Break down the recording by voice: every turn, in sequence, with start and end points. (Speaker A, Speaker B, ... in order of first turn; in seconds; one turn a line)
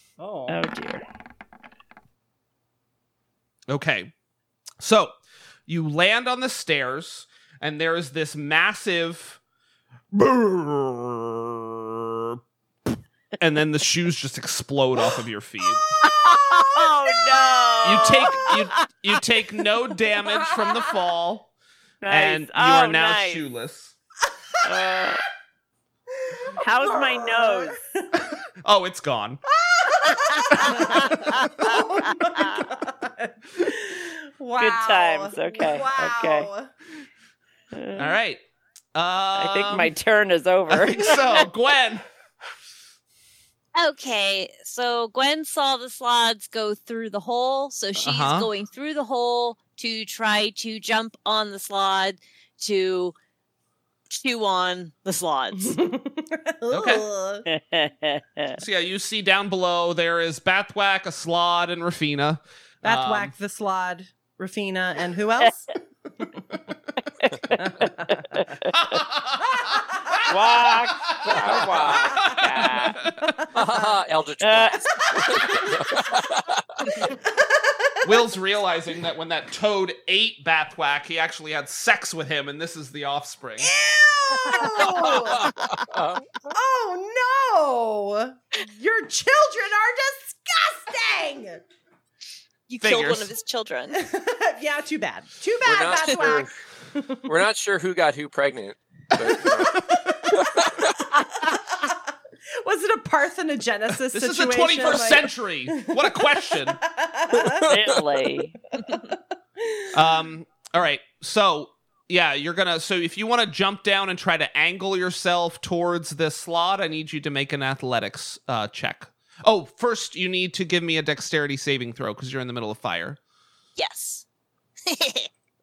Speaker A: 0.2-0.6
Speaker B: 0.5-1.0
Speaker C: 3.7-4.1
Speaker C: 4.8-5.2
Speaker C: 5.7-9.4
Speaker C: 10.1-15.8
Speaker B: 16.0-18.7
Speaker A: 16.4-16.9
Speaker A: 17.6-18.3
Speaker C: 17.8-21.5
Speaker B: 22.0-23.4
Speaker C: 22.1-23.9
Speaker B: 24.6-25.3
Speaker A: 26.3-28.1
Speaker B: 26.6-27.8
Speaker C: 28.6-29.4
Speaker A: 29.6-36.7
Speaker B: 30.2-31.6
Speaker C: 30.6-31.5
Speaker B: 32.2-32.7
Speaker B: 34.6-36.5
Speaker B: 37.7-38.2
Speaker C: 38.0-38.4
Speaker C: 38.9-39.9
Speaker B: 39.4-41.5
Speaker C: 40.7-42.0
Speaker D: 43.8-53.1
Speaker C: 48.0-48.5
Speaker D: 54.1-55.8
Speaker A: 55.6-57.5
Speaker C: 56.7-57.1
Speaker B: 57.5-58.6
Speaker C: 58.6-63.3
Speaker A: 62.8-65.7
Speaker A: 67.5-68.4
Speaker B: 68.2-69.0
Speaker C: 68.6-73.5
Speaker B: 70.3-73.0
Speaker E: 71.3-72.3
Speaker E: 73.5-77.0
Speaker B: 74.4-74.8
Speaker A: 75.1-75.8
Speaker A: 77.0-77.9
Speaker C: 78.0-83.7
Speaker A: 83.6-85.8
Speaker E: 85.2-86.5
Speaker A: 86.5-91.6
Speaker D: 92.7-94.1
Speaker C: 92.8-93.3
Speaker A: 94.0-97.2
Speaker E: 95.6-96.5
Speaker E: 97.3-101.0
Speaker A: 99.8-100.7
Speaker A: 101.3-102.0
Speaker A: 102.6-107.7
Speaker C: 104.1-106.8
Speaker E: 107.4-108.0
Speaker B: 107.7-108.6
Speaker A: 108.8-109.9
Speaker C: 109.9-123.2
Speaker D: 123.8-124.3
Speaker D: 124.9-125.3